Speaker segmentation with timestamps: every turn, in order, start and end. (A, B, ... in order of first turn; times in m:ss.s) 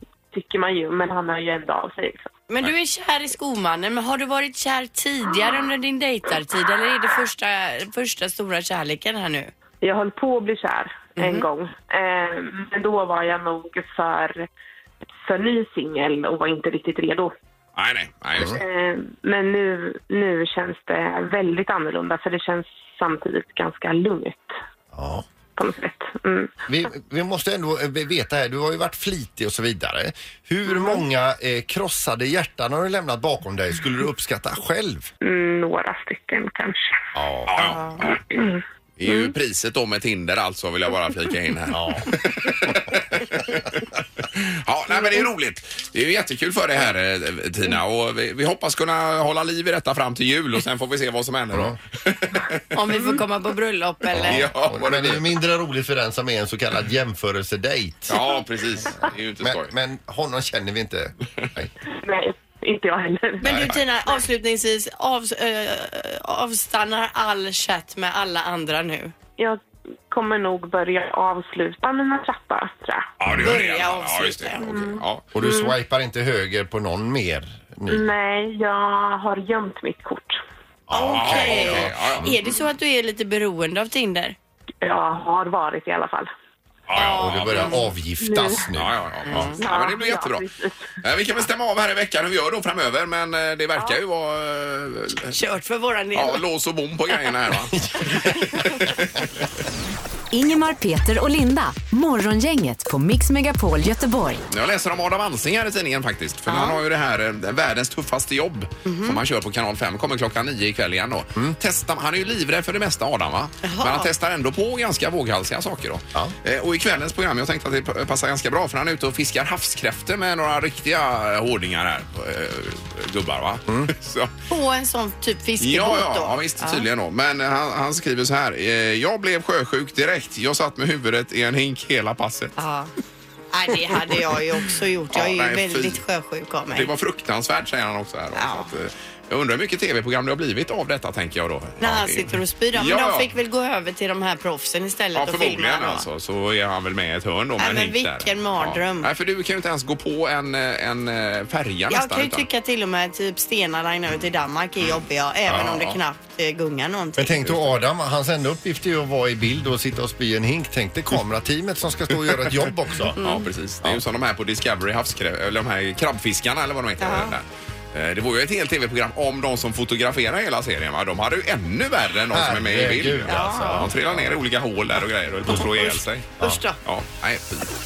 0:00.3-0:02.3 A
0:02.5-0:09.5 B
0:09.8-0:14.5 A
0:11.2-0:11.5 B
0:15.2-0:17.3 A
0:17.8-0:18.6 C
0:18.4-0:24.5 A
0:24.9-0:25.2 D
0:25.6-0:26.6 A
0:26.7-0:35.1 D
0:35.2-0:36.9 A
0:37.1-0:37.6 D
0:37.5-0:38.2 C
0:38.3-0:39.3 A
0:39.0-0:52.6 C
0:41.7-0:43.2 D
0:51.5-0:51.8 D
0:52.7-0:54.4 B
0:54.1-0:55.3 C
0:54.1-0:58.2 D
0:58.1-0:59.7 C
0:58.9-1:01.7 D
1:01.9-1:03.4 A
1:03.4-1:09.1 B
1:09.4-1:13.1 A
1:13.2-1:15.2 C
1:13.2-1:13.6 D
1:13.4-1:14.8 B
1:14.6-1:15.7 A
1:15.3-1:18.1 D
1:17.9-1:20.4 A
1:20.9-1:22.0 D
1:20.9-1:24.4 B
1:20.9-1:22.3 C
1:24.8-1:26.3 A
1:26.9-1:27.7 C
1:26.9-1:29.4 D
1:27.0-1:27.8 B
1:27.5-1:28.7 A
1:28.8-1:30.4 C
1:29.2-1:29.6 B
1:29.5-1:30.8 A
1:31.0-1:35.4 C
1:35.3-1:36.4 B
1:36.1-1:39.4 C
1:37.9-1:38.2 D
1:40.3-1:44.4 E
1:44.5-2:04.3 C
1:46.5-1:46.8 B
1:48.8-1:49.2 B
1:53.6-1:54.1 B
2:03.7-2:03.9 D
2:04.5-2:06.8 B
2:05.6-2:12.5 C
2:12.6-2:12.9 B
2:13.5-2:16.9 B
2:15.1-2:16.0 C
2:16.7-2:23.3 C
2:18.3-2:18.7 B
2:21.8-2:26.1 B
2:25.1-2:32.4 C
2:27.6-2:29.1 B
2:31.9-2:37.5 B
2:35.5-2:35.8 D
2:35.5-2:36.0 C
2:37.2-2:43.2 D
2:43.2-2:57.6 C
2:43.2-2:43.5 B
2:47.0-2:47.3 B
2:52.3-2:54.4 D
2:53.3-2:53.9 B
2:55.5-2:56.8 B